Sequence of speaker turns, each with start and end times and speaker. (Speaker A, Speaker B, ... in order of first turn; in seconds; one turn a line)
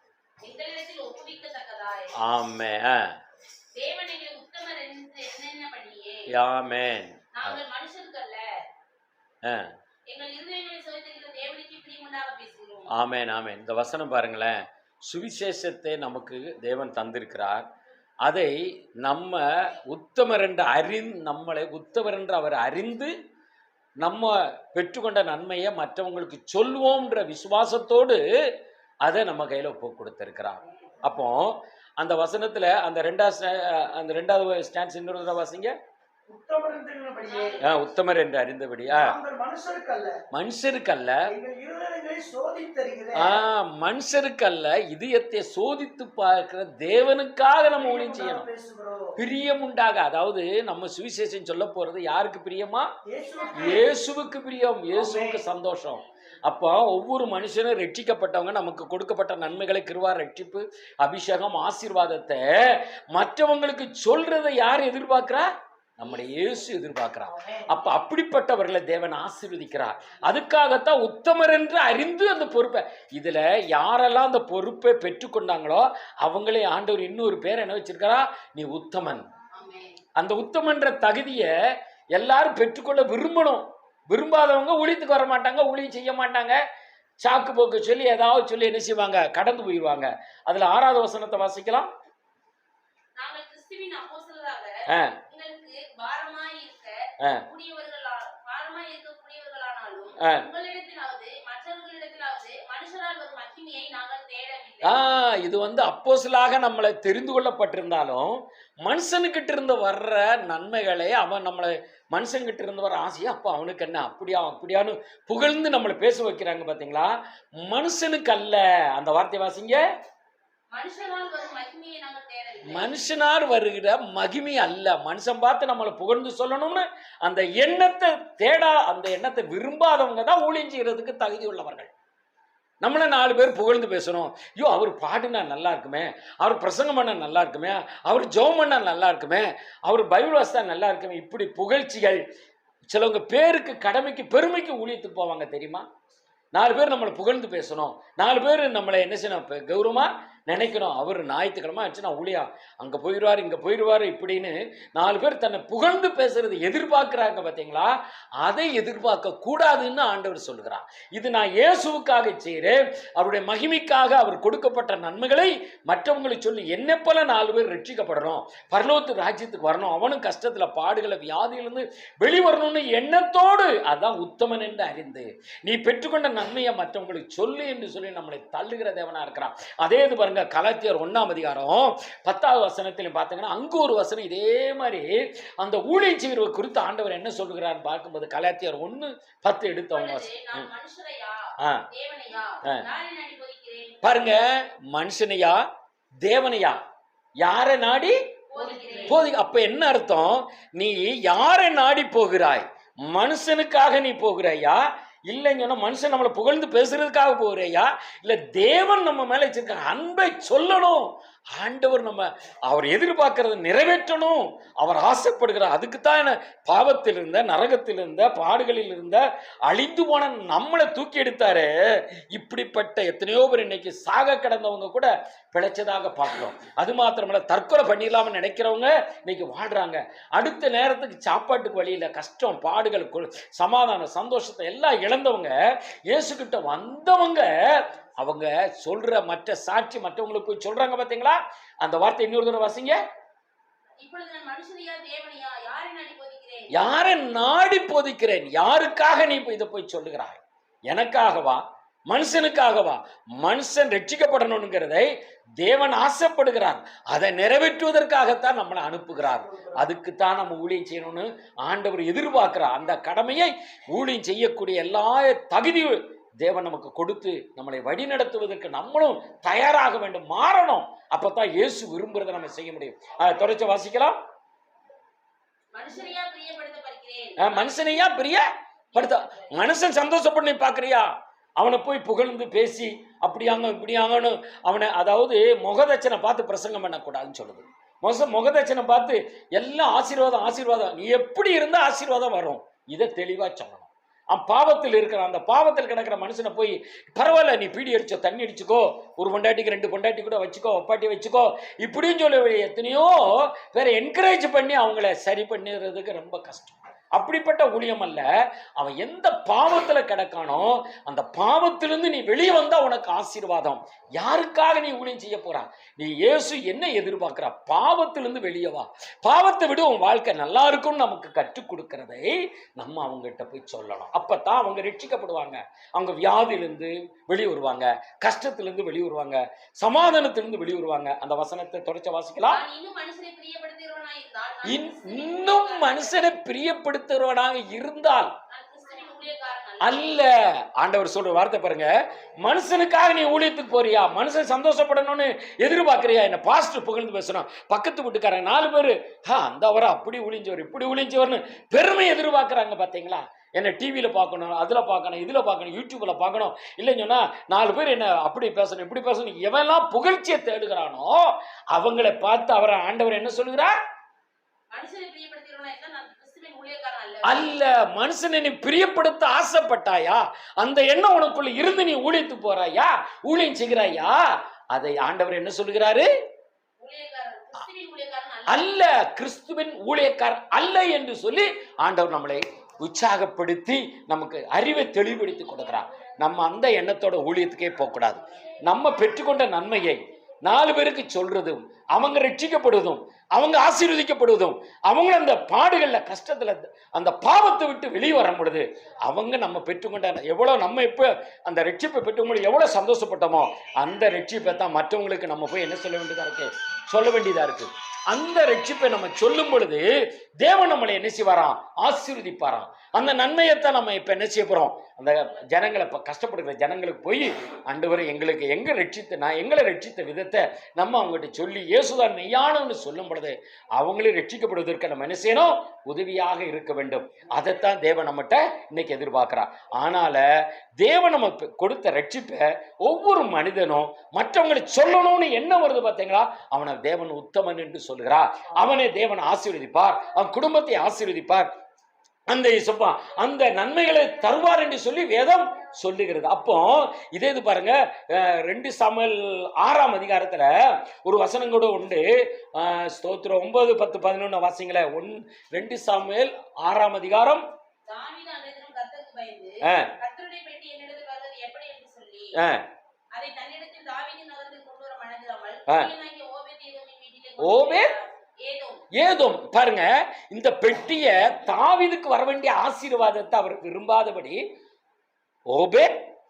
Speaker A: 0.4-2.1
Speaker B: 2.2-3.2
Speaker A: 3.8-6.3
Speaker B: 6.3-7.6
Speaker A: 7.3-8.4
Speaker B: 9.4-9.7
Speaker A: 10.1-12.9
Speaker B: 12.9-17.7
Speaker B: 18.2-23.1
Speaker B: 24.0-28.2
Speaker B: 29.0-35.8
Speaker C: 36.3-37.6
Speaker A: 37.2-37.9
Speaker B: 37.6-39.2
Speaker C: 38.9-40.2
Speaker B: 40.3-41.3
Speaker C: 41.3-43.4
Speaker B: 43.1-48.5
Speaker C: 47.8-49.2
Speaker B: 49.2-52.9
Speaker C: 53.1-53.8
Speaker A: 53.4-53.9
Speaker B: 53.5-79.3
Speaker C: 54.9-55.4
Speaker C: 67.3-67.7
Speaker A: 79.5-80.0
Speaker B: 80.2-81.5
Speaker B: 82.1-86.6
Speaker B: 87.2-91.9
Speaker A: 93.2-105.0
Speaker B: 94.9-95.2
Speaker B: 104.8-119.8
Speaker A: 120.7-122.9
Speaker B: 122.7-131.9
Speaker B: 132.8-142.2
Speaker B: 142.9-145.9
Speaker B: 146.5-190.7
Speaker A: 189.9-194.0
Speaker B: 194.0-195.6
Speaker B: 196.2-196.8
Speaker B: 197.4-198.2
Speaker A: 198.5-199.2
Speaker C: 198.6-199.0
Speaker B: 199.0-221.7
Speaker B: 222.3-237.5
Speaker B: 238.2-243.0
Speaker A: 244.0-246.7
Speaker B: 246.7-255.1
Speaker B: 255.6-274.2
Speaker C: 259.2-259.9
Speaker A: 275.7-278.1
Speaker B: 277.4-332.6
Speaker A: 278.9-279.5
Speaker A: 332.5-336.3
Speaker B: 334.6-338.3
Speaker A: 338.5-340.3
Speaker B: 339.8-361.1
Speaker B: 361.7-363.7
Speaker A: 364.7-367.5
Speaker B: 367.2-374.2
Speaker B: 374.7-376.1
Speaker A: 376.8-378.8
Speaker B: 378.5-409.9
Speaker B: 410.4-430.2
Speaker B: 430.8-441.5
Speaker B: 442.3-457.4
Speaker A: 457.9-462.4
Speaker B: 459.6-459.9
Speaker B: 462.4-462.6
Speaker A: 463.1-468.8
Speaker B: 467.4-467.9
Speaker B: 468.9-474.4
Speaker B: 475.5-476.0